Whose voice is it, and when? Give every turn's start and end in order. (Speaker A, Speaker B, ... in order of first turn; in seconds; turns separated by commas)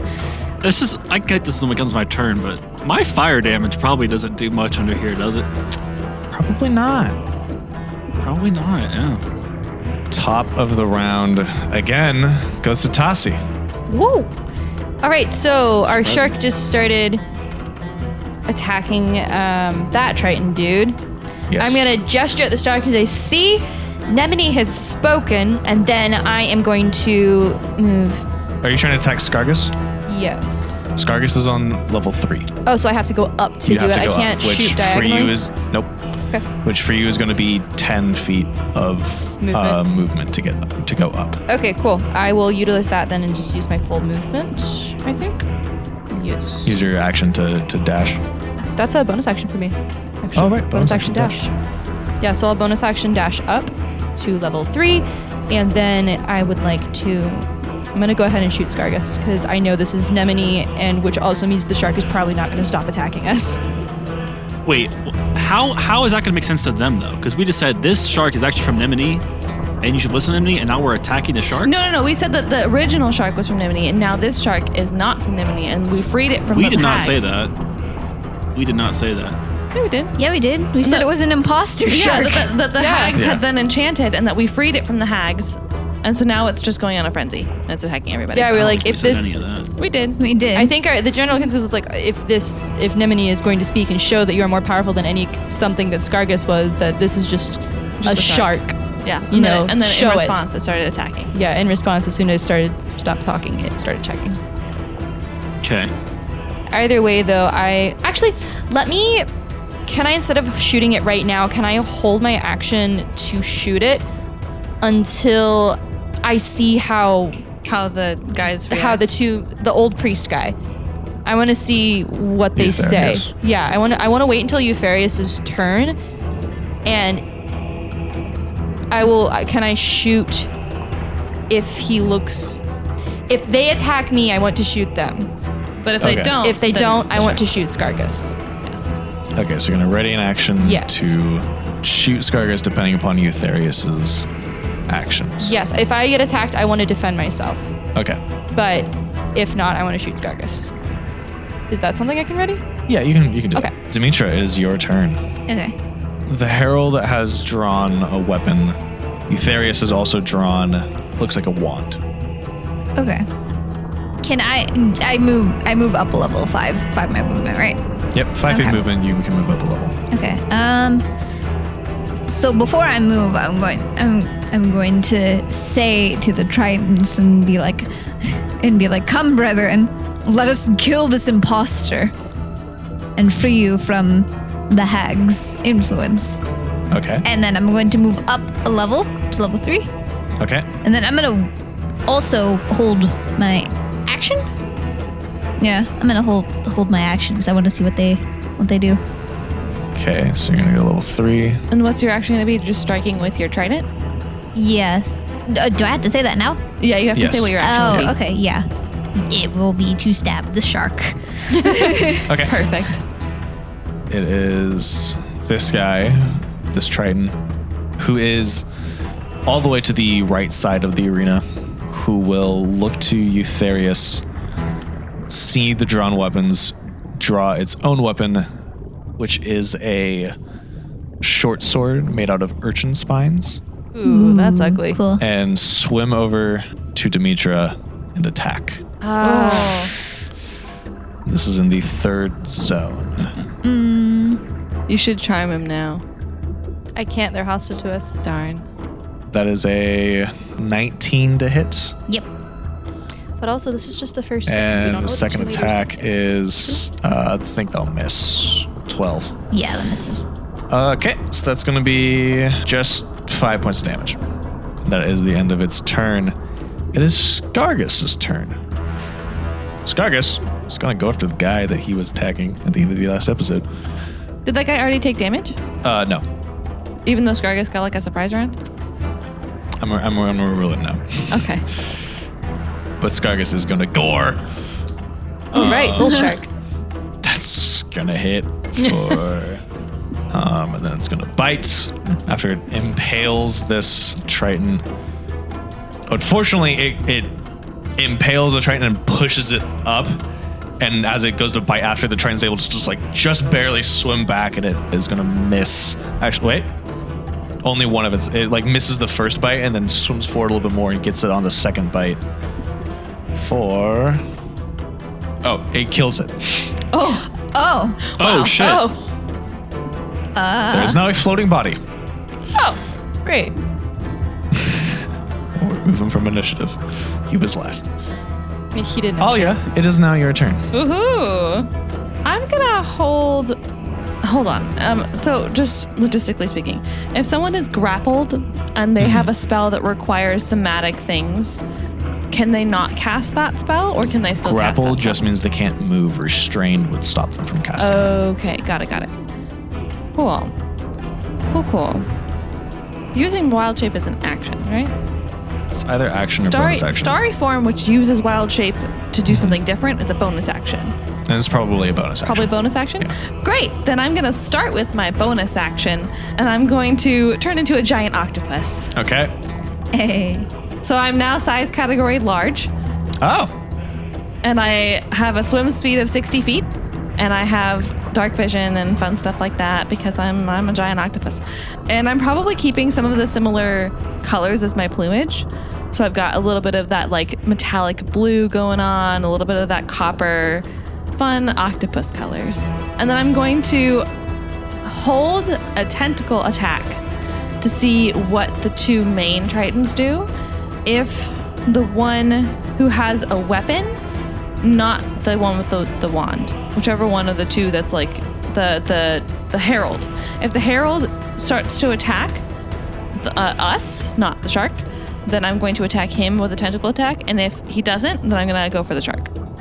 Speaker A: 0.6-5.5, Speaker B: 6.3-7.2, Speaker A: 8.2-9.2, Speaker B: 10.1-13.4, Speaker C: 13.9-14.3, Speaker C: 15.0-17.2, Speaker A: 15.9-16.3, Speaker C: 18.5-21.0, Speaker B: 21.5-21.9, Speaker C: 21.6-28.2, Speaker B: 28.6-29.7, Speaker C: 30.1-30.8, Speaker B: 31.0-32.5, Speaker C: 32.7-35.4, Speaker B: 33.6-35.9, Speaker B: 36.6-41.4, Speaker C: 39.4-39.8, Speaker C: 41.5-45.5, Speaker C: 46.1-46.8, Speaker B: 46.6-48.2, Speaker C: 48.8-51.5, Speaker B: 50.4-51.4, Speaker C: 52.2-63.6, Speaker A: 64.7-69.2, Speaker A: 69.8-71.7, Speaker D: 71.6-77.3, Speaker A: 76.5-77.5, Speaker A: 78.5-79.4, Speaker D: 79.7-80.1, Speaker E: 80.2-82.5, Speaker D: 80.8-81.1, Speaker D: 81.9-88.6, Speaker C: 82.8-83.2, Speaker B: 83.2-83.4, Speaker C: 88.3-89.4, Speaker A: 88.5-89.7, Speaker D: 89.8-90.2, Speaker E: 90.2-90.7, Speaker C: 90.5-98.8, Speaker D: 98.0-101.3, Speaker C: 99.3-100.4, Speaker C: 101.3-104.4, Speaker A: 105.6-105.9, Speaker C: 106.7-109.3, Speaker C: 109.9-114.1, Speaker C: 114.8-117.4, Speaker D: 117.6-119.0, Speaker C: 118.7-120.6, Speaker C: 121.2-126.0, Speaker B: 122.6-123.3, Speaker C: 126.8-127.2, Speaker C: 128.9-130.5, Speaker C: 131.5-132.6, Speaker C: 133.3-135.3, Speaker D: 135.8-137.5, Speaker B: 136.0-136.4, Speaker C: 136.4-138.4, Speaker B: 139.4-144.3, Speaker C: 140.6-141.2, Speaker B: 144.9-145.6, Speaker C: 145.4-147.7, Speaker B: 147.9-148.2, Speaker C: 148.5-150.7, Speaker C: 151.7-152.6, Speaker B: 152.9-155.2, Speaker E: 155.5-155.8, Speaker B: 156.3-158.8, Speaker B: 159.3-162.0, Speaker E: 163.0-163.3, Speaker E: 164.2-167.8, Speaker B: 168.1-170.0, Speaker E: 168.5-168.8, Speaker E: 170.1-171.1, Speaker E: 172.3-182.1, Speaker E: 183.2-186.4, Speaker B: 186.9-187.2, Speaker E: 187.2-189.9, Speaker B: 190.4-190.7, Speaker E: 190.8-191.5, Speaker E: 192.1-194.4, Speaker E: 195.6-199.0, Speaker B: 199.9-201.6, Speaker D: 201.7-203.9, Speaker E: 204.5-206.6, Speaker D: 206.8-208.2, Speaker B: 207.2-208.1, Speaker E: 207.6-212.3, Speaker D: 211.6-213.0, Speaker B: 212.3-212.7, Speaker B: 214.1-217.4, Speaker B: 218.0-218.7, Speaker B: 219.5-224.2, Speaker B: 225.3-228.5, Speaker B: 229.2-230.3, Speaker B: 231.2-233.6, Speaker C: 233.9-235.0, Speaker E: 234.0-235.2, Speaker B: 235.2-238.8, Speaker C: 239.0-239.9, Speaker D: 239.2-239.9, Speaker B: 241.3-243.3, Speaker E: 243.4-244.4, Speaker D: 244.9-246.0, Speaker C: 247.0-248.2, Speaker D: 248.2-248.7, Speaker B: 249.3-252.0, Speaker C: 253.4-256.1, Speaker B: 254.5-259.4, Speaker E: 259.5-260.3, Speaker B: 260.7-264.2, Speaker B: 264.9-266.4, Speaker B: 266.9-268.6, Speaker B: 269.9-273.6, Speaker D: 274.4-275.6, Speaker B: 275.8-276.2, Speaker D: 277.1-278.6, Speaker B: 279.8-281.5, Speaker D: 281.3-281.6, Speaker B: 283.0-284.4, Speaker B: 285.5-286.4, Speaker C: 285.5-286.5, Speaker B: 287.2-289.6, Speaker B: 290.3-294.8, Speaker B: 296.1-297.3, Speaker B: 298.0-300.2, Speaker B: 300.8-306.7, Speaker B: 307.6-312.2, Speaker B: 313.3-314.2, Speaker B: 315.4-316.7, Speaker C: 316.9-317.3, Speaker E: 317.4-318.0, Speaker A: 318.2-318.9, Speaker C: 318.2-319.0, Speaker D: 318.2-318.5, Speaker E: 320.4-321.0, Speaker B: 320.7-321.8, Speaker C: 322.6-323.6, Speaker B: 324.5-324.9, Speaker B: 325.6-327.9, Speaker C: 328.7-329.7, Speaker B: 329.2-330.6, Speaker D: 330.7-331.7, Speaker D: 332.2-333.6, Speaker D: 334.2-341.6, Speaker B: 339.0-339.3, Speaker D: 342.3-345.3, Speaker B: 344.4-348.2, Speaker D: 347.8-349.1, Speaker D: 350.2-350.5, Speaker D: 351.5-352.1, Speaker D: 353.1-354.9, Speaker B: 355.7-357.2, Speaker D: 356.4-360.9, Speaker B: 359.3-359.6, Speaker B: 361.3-363.1, Speaker D: 362.2-368.9, Speaker B: 368.9-369.3, Speaker E: 369.9-370.5, Speaker D: 370.8-372.7, Speaker B: 373.2-373.5, Speaker D: 374.4-394.1, Speaker D: 394.8-397.0, Speaker D: 397.6-400.3, Speaker D: 400.9-403.9, Speaker D: 404.6-412.4, Speaker D: 413.2-419.3